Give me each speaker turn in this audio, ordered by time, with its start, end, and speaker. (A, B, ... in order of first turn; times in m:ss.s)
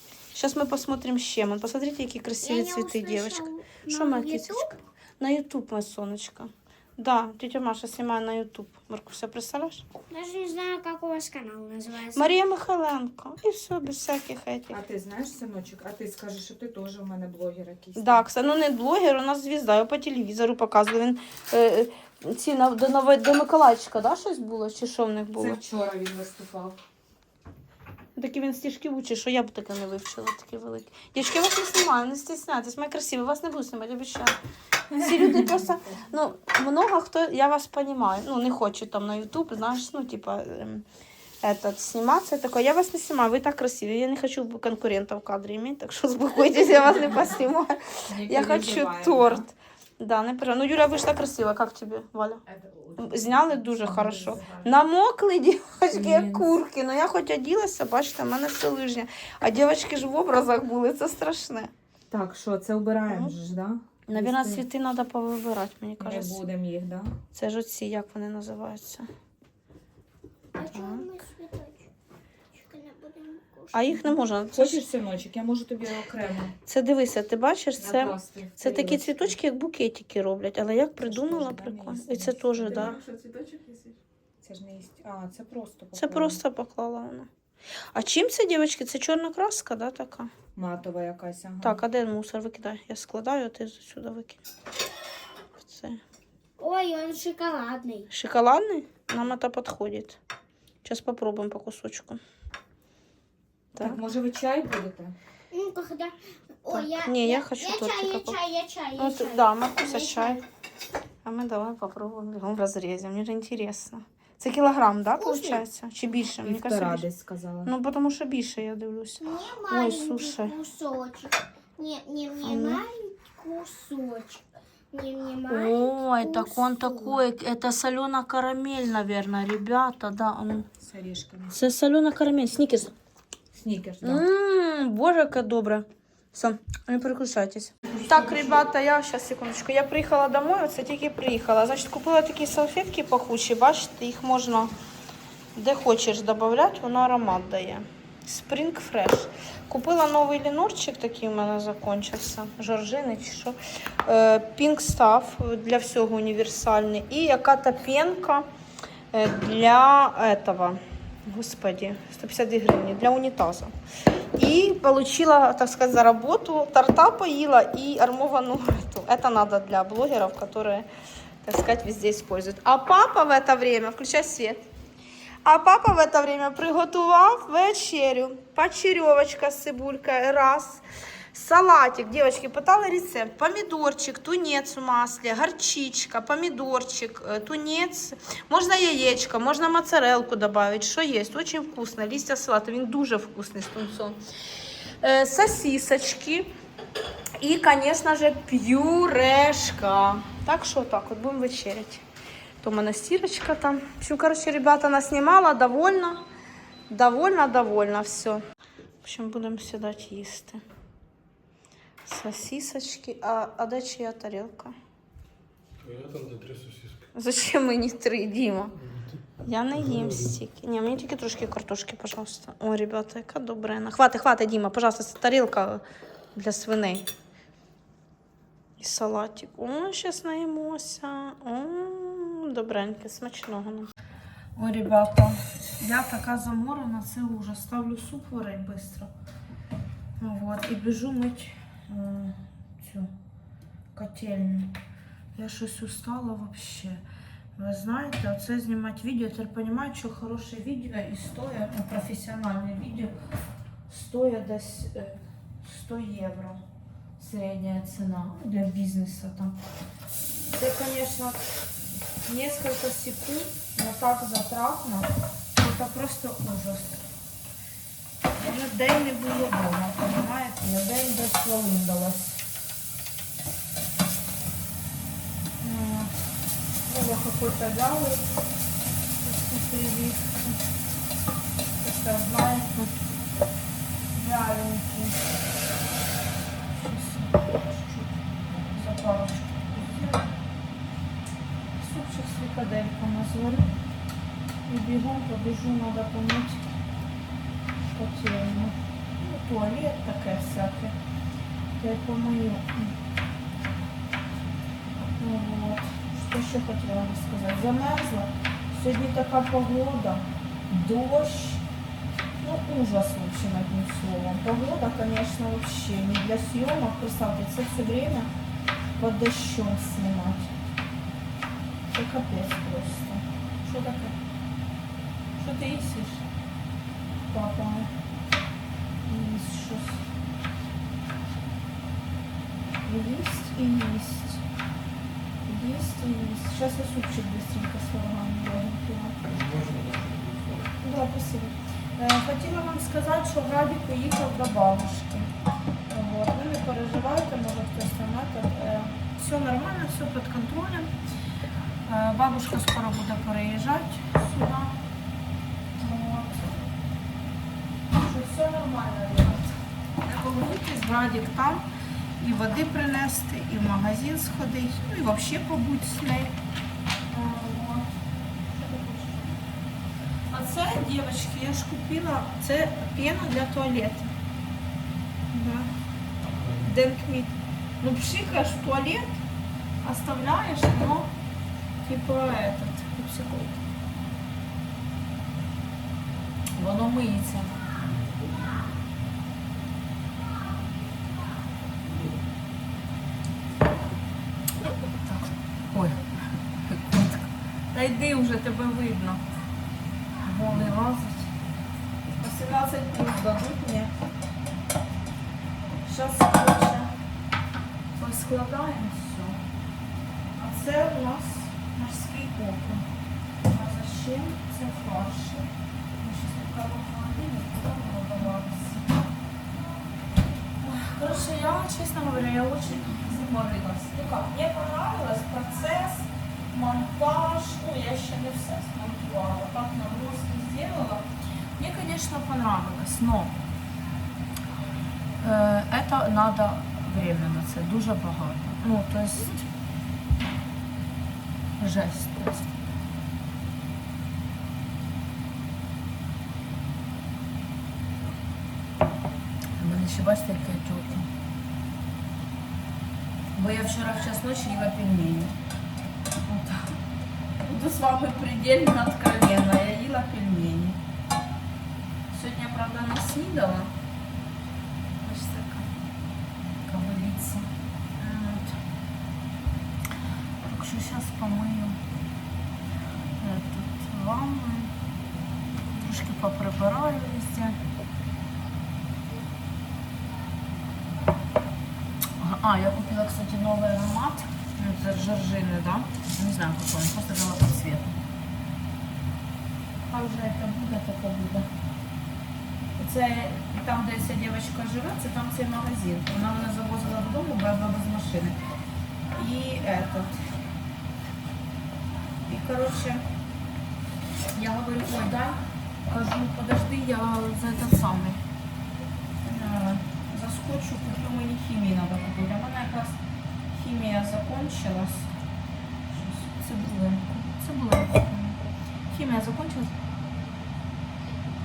0:00.3-0:09.8 A
0:02.4-0:04.7 B
0:10.1-0:12.4 B
0:12.1-0:14.8 A
0:14.7-0:18.2 C
0:18.0-0:25.6 A
0:25.4-0:26.8 C
0:28.2-0:34.4 A
0:34.9-0:40.8 A
0:35.0-0:35.4 C
0:41.4-0:52.4 A
0:48.1-0:49.4 C
0:52.5-0:54.8 C
0:53.0-1:01.7 A
0:55.9-0:56.5 C
1:02.1-1:04.6 C
1:04.1-1:06.4 A
1:06.0-1:07.2 C
1:07.3-1:09.1 A
1:10.5-1:11.9 B
1:10.7-1:11.0 A
1:12.5-1:14.2 B
1:13.7-1:14.8 A
1:14.5-1:16.5 C
1:16.6-1:23.0 A
1:17.8-1:19.4 C
1:21.0-1:26.4 C
1:25.9-1:27.3 A
1:27.9-1:30.3 A
1:30.5-1:31.8 C
1:31.6-1:34.4 A
1:35.6-1:36.0 A
1:36.6-1:38.1 B
1:38.1-1:40.2 A
1:40.8-1:42.2 A
1:43.7-1:44.0 A
1:43.7-1:45.1 C
1:45.5-1:50.4 B
1:46.7-1:48.4 A
1:49.0-1:50.4 A
1:51.2-1:57.0 A
1:55.2-1:55.6 B
1:56.4-1:57.7 C
1:57.6-2:00.6 A
1:59.2-2:07.2 B
2:02.4-2:02.8 A
2:05.5-2:10.7 A
2:10.8-2:11.6 C
2:11.5-2:12.9 A
2:13.5-2:14.2 C
2:14.0-2:24.7 A
2:17.9-2:18.6 C
2:25.5-2:38.4 A
2:39.1-2:43.7 A
2:44.4-2:50.9 A
2:51.4-2:54.6 A
2:55.4-3:14.2 A
3:15.0-3:16.5 A
3:17.4-3:22.0 A
3:22.6-3:26.2 A
3:26.9-3:28.4 A
3:29.0-3:30.6 A
3:32.0-3:34.7 A
3:35.8-3:37.1 D
3:37.1-3:38.8 A
3:38.8-3:39.2 D
3:39.4-3:45.8 A
3:39.8-3:40.4 D
3:46.3-3:47.1 A
3:48.8-3:53.9 A
3:54.6-3:59.1 A
4:00.2-4:03.1 A
4:03.9-4:04.8 A
4:05.3-4:07.0 A
4:07.6-4:13.1 A
4:13.9-4:16.6 A
4:17.2-4:19.6 A
4:20.5-4:21.4 A
4:22.2-4:27.0 A
4:28.4-4:32.4 A
4:35.6-4:36.1 A
4:36.8-4:38.2 A
4:39.2-4:40.6 A
4:41.8-4:42.9 A
4:44.1-4:45.2 A
4:46.7-4:50.3 A
4:51.8-4:53.7 A
4:54.7-4:56.6 A
4:57.9-5:00.9 A
5:01.8-5:02.9 A
5:05.2-5:11.6 A
5:12.4-5:18.3 A
5:19.0-5:20.5 A
5:21.9-5:24.2 A
5:25.4-5:26.2 A
5:27.3-5:27.9 A
5:29.0-5:30.0 A
5:32.8-5:34.4 A
5:35.4-5:39.2 A
5:39.2-5:40.8 D
5:40.8-5:45.3 A
5:45.9-5:50.9 A
5:51.8-5:54.8 A
5:55.8-5:56.5 A
5:57.9-6:01.6 A
6:02.2-6:06.3 A
6:07.1-6:08.0 A
6:08.5-6:09.4 A
6:10.3-6:14.1 A
6:15.3-6:15.7 A
6:16.6-6:19.2 A
6:19.8-6:21.1 A
6:21.8-6:23.6 A
6:26.6-6:27.5 A
6:27.8-6:28.5 D
6:31.8-6:32.1 D
6:34.9-6:36.0 A
6:36.6-6:39.2 A
6:40.2-6:41.3 A
6:42.2-6:43.9 A
6:45.8-6:46.9 A
6:48.0-6:49.4 A
6:50.4-6:52.8 A
6:53.4-6:55.5 A
6:56.0-6:59.0 A
7:00.6-7:13.4 A
7:15.2-7:19.4 A
7:21.6-7:22.6 A
7:29.6-7:31.1 A
7:33.3-7:35.4 A
7:36.2-7:36.7 A
7:37.4-7:40.8 A
7:42.1-7:43.7 A
7:45.0-7:45.7 A
7:46.6-7:48.5 A
7:50.4-7:51.8 A
7:53.2-7:54.7 A
7:55.8-7:57.6 A
8:02.2-8:08.0 A
8:09.9-8:11.5 A
8:12.8-8:18.4 A
8:19.1-8:20.2 A
8:22.3-8:23.0 A
8:24.4-8:28.2 A
8:29.2-8:33.0 A
8:33.5-8:35.1 A
8:35.9-8:39.7 A